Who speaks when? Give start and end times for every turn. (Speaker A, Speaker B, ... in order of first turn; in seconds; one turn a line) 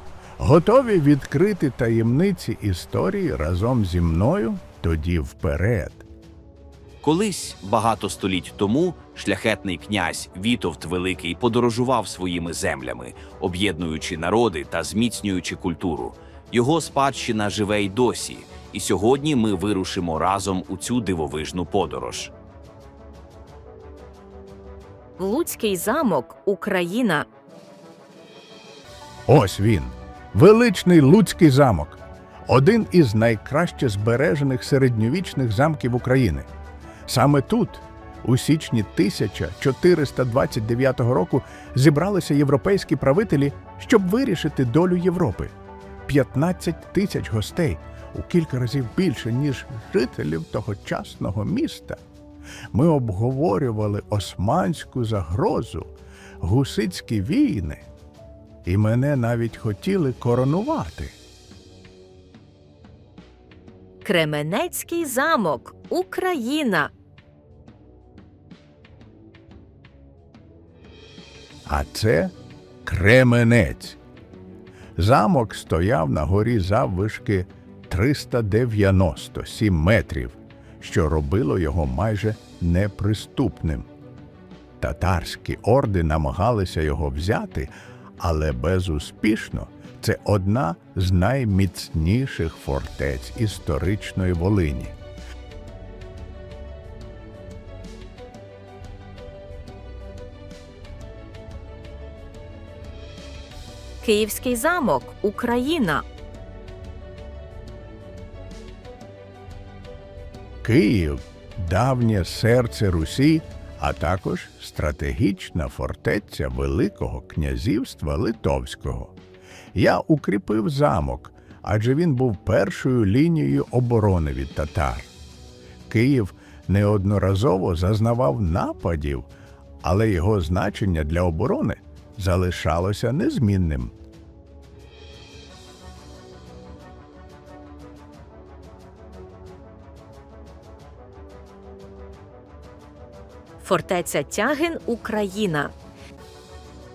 Speaker A: 0.4-6.0
Speaker B: 7.0-22.3
Speaker C: 25.2-27.3
Speaker A: 29.3-36.5
Speaker A: 37.1-45.5
Speaker A: 46.1-52.0
Speaker A: 52.7-57.8
Speaker A: 58.7-61.2
Speaker C: 64.0-66.9
Speaker A: 71.7-74.0
Speaker A: 75.0-83.9
Speaker A: 84.8-95.0
Speaker C: 104.0-106.0
Speaker A: 110.6-119.2
Speaker A: 119.7-125.1
Speaker A: 125.9-129.3
Speaker A: 129.8-133.9
Speaker C: 143.6-145.7